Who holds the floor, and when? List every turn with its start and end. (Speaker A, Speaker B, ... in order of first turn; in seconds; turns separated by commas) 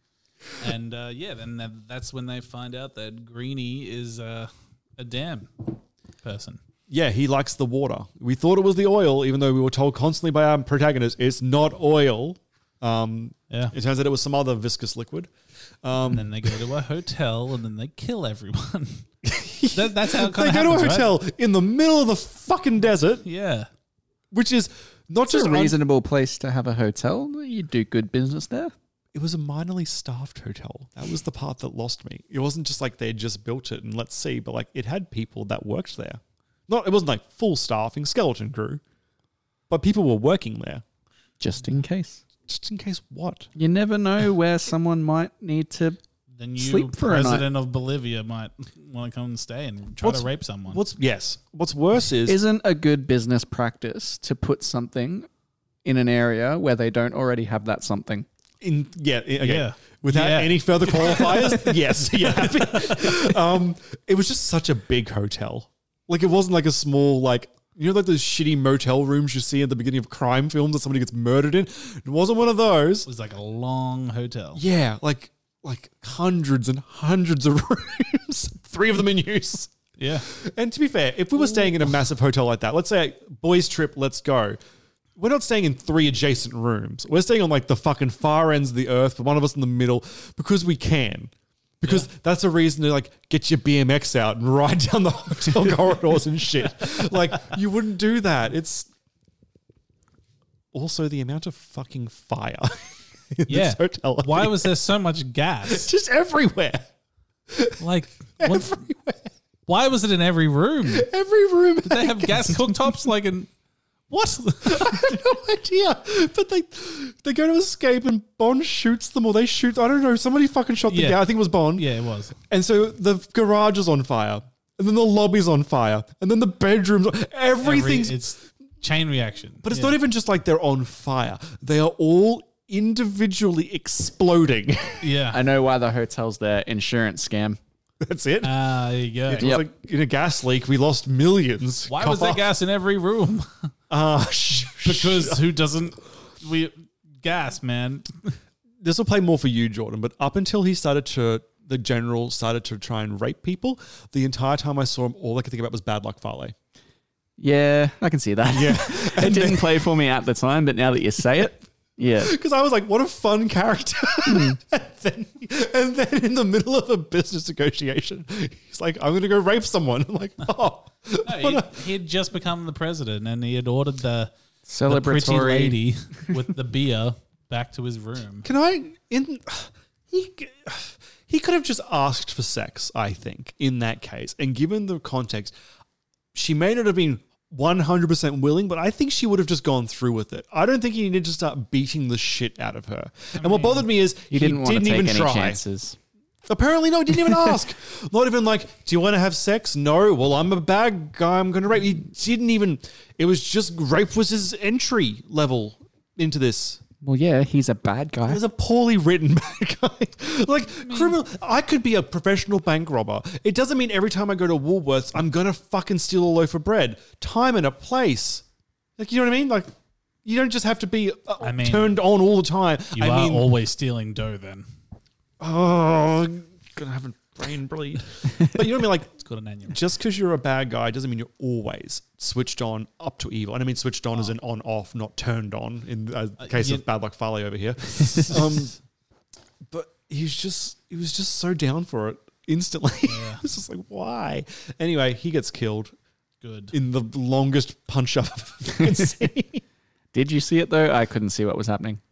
Speaker A: 0.6-6.6, Speaker B: 6.9-15.3, Speaker A: 13.5-13.7, Speaker B: 15.8-16.6, Speaker A: 16.1-19.1, Speaker B: 19.2-23.2, Speaker A: 19.7-21.1, Speaker A: 23.2-23.7, Speaker B: 24.3-25.8, Speaker C: 25.3-28.7, Speaker B: 29.1-38.8, Speaker B: 39.7-40.8, Speaker C: 41.4-42.2, Speaker B: 42.5-43.5, Speaker C: 43.5-46.0, Speaker A: 46.3-50.8, Speaker C: 46.6-47.5, Speaker B: 50.0-52.4, Speaker C: 52.2-55.3, Speaker C: 55.8-58.2, Speaker B: 58.6-73.1, Speaker A: 59.4-61.8, Speaker A: 62.3-63.1, Speaker A: 73.0-74.6, Speaker B: 74.6-84.6, Speaker A: 80.0-80.3, Speaker B: 85.2-98.9, Speaker B: 100.7-104.7, Speaker A: 103.5-105.9, Speaker B: 105.7-106.8, Speaker B: 107.5-107.8, Speaker A: 107.8-108.8, Speaker B: 108.4-109.3, Speaker A: 109.7-111.1, Speaker B: 110.9-113.0, Speaker A: 111.8-113.5, Speaker A: 114.1-115.2, Speaker B: 114.6-121.9, Speaker A: 120.9-121.2, Speaker A: 121.7-122.4, Speaker B: 122.4-128.2, Speaker A: 127.6-129.9, Speaker B: 129.6-135.0, Speaker A: 135.0-135.4, Speaker C: 135.3-137.6, Speaker B: 138.0-138.6, Speaker A: 138.4-139.6, Speaker B: 139.2-142.4, Speaker C: 139.4-139.6, Speaker A: 141.9-143.7, Speaker B: 143.9-145.4, Speaker A: 144.8-148.4, Speaker B: 148.8-156.5, Speaker C: 157.4-162.3, Speaker B: 158.5-159.9, Speaker B: 162.2-171.8, Speaker C: 164.3-164.6, Speaker A: 171.2-174.3, Speaker C: 174.7-175.8, Speaker A: 174.9-178.5, Speaker B: 178.4-185.5, Speaker B: 186.3-195.6, Speaker A: 193.3-193.9, Speaker C: 194.3-196.0, Speaker B: 196.5-206.8, Speaker C: 207.0-208.4, Speaker B: 208.3-218.4, Speaker A: 210.8-211.2, Speaker B: 219.0-219.7, Speaker B: 220.2-223.4, Speaker A: 221.4-222.0, Speaker A: 222.9-224.7, Speaker B: 225.4-229.1, Speaker A: 229.2-229.8, Speaker B: 229.7-238.7, Speaker A: 236.4-236.8, Speaker A: 237.9-238.7, Speaker B: 239.7-245.9, Speaker A: 243.1-243.4, Speaker A: 246.4-246.7, Speaker B: 246.7-249.6, Speaker C: 250.1-252.0